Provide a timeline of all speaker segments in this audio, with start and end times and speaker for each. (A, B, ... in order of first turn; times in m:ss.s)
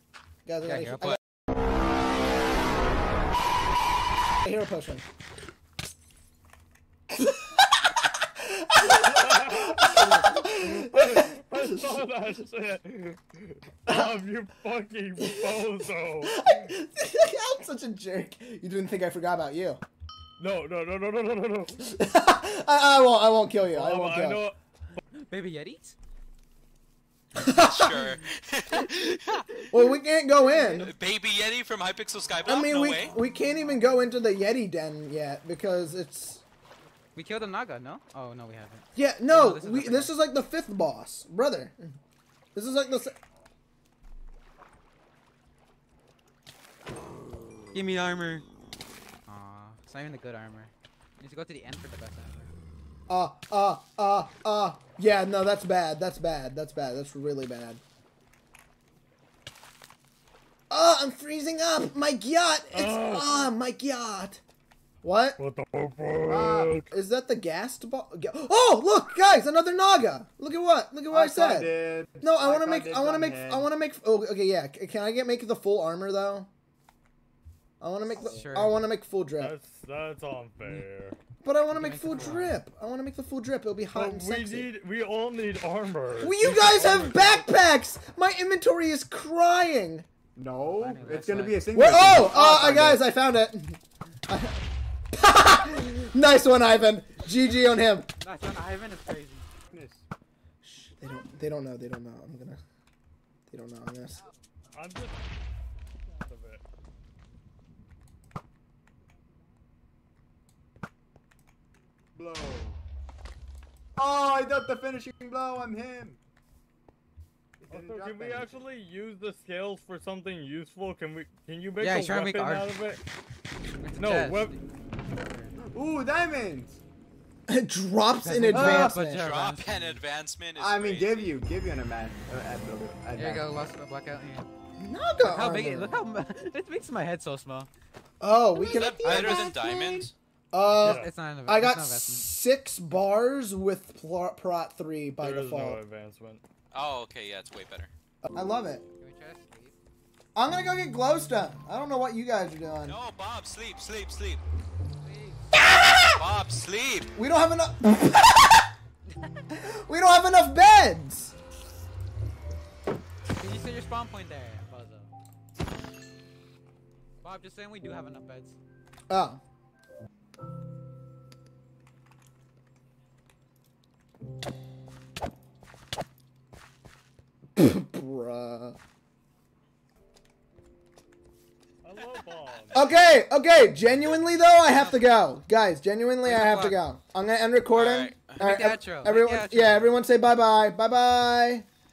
0:00.4-0:01.2 A
0:00.6-0:01.2 B
0:04.4-0:05.0 A
0:07.2-0:07.6 A
0:08.2-0:11.9 A
0:08.8-0:16.7 C
0:13.9-0:14.2 A
0:15.2-0:15.5 A
0:16.2-0:19.8 A
0:20.4-0:21.8 C
0:21.8-0:24.4 A
0:23.7-0:24.6 C
0:25.1-0:26.0 B
0:27.4-0:28.2 A
0:27.4-0:29.6 D
0:29.3-0:29.7 B
0:29.7-0:30.9 A
0:30.5-0:33.1 D
0:32.4-0:36.4 A
0:37.1-0:40.1 B
0:38.9-0:42.0 A
0:42.5-0:43.2 A
0:47.7-0:48.5 B
0:49.3-0:52.5 B
0:53.1-0:57.8 A
1:00.7-1:04.4 A
1:02.7-1:03.5 C
1:05.0-1:05.4 A
1:05.4-1:06.9 C
1:06.2-1:06.8 E
1:06.9-1:16.5 A
1:11.1-1:13.7 E
1:17.8-1:19.5 A
1:18.1-1:18.8 B
1:19.4-1:21.2 C
1:21.4-1:24.7 A
1:21.7-1:22.6 B
1:23.9-1:27.5 C
1:26.2-1:30.0 A
1:30.4-1:33.0 E
1:30.7-1:31.7 B
1:31.7-1:38.1 A
1:38.2-1:39.5 B
1:39.7-1:40.0 E
1:40.6-1:42.6 A
1:43.5-1:44.2 A
1:44.7-1:45.2 C
1:46.1-1:46.6 C
1:52.1-1:52.8 E
1:54.0-1:56.2 E
1:57.6-1:58.6 E
1:57.7-2:03.0 C
2:01.8-2:02.7 B
2:03.8-2:05.6 B
2:04.0-2:04.5 C
2:05.6-2:06.8 E
2:07.5-2:09.2 A
2:08.2-2:10.0 B
2:08.5-2:09.0 E
2:09.1-2:11.3 D
2:10.6-2:13.5 E
2:13.1-2:14.5 B
2:14.8-2:16.0 A
2:15.2-2:17.7 B
2:18.2-2:25.8 A
2:18.6-2:20.1 D
2:18.7-2:19.5 B
2:20.8-2:21.1 C
2:20.8-2:22.3 B
2:25.2-2:26.4 C
2:26.7-2:27.9 D
2:28.2-2:28.8 A
2:29.0-2:29.7 B
2:30.4-2:33.0 A
2:32.8-2:34.4 D
2:35.0-2:35.5 B
2:35.5-2:36.2 A
2:36.0-2:37.1 D
2:37.1-2:38.6 A
2:39.5-2:41.3 A
2:43.3-2:45.1 B
2:47.2-2:48.6 B
2:49.1-2:49.4 A
2:57.6-2:58.8 A
3:01.8-3:02.8 C
3:02.7-3:11.6 A
3:04.7-3:05.0 B
3:06.2-3:06.8 B
3:07.7-3:08.4 D
3:08.4-3:09.9 B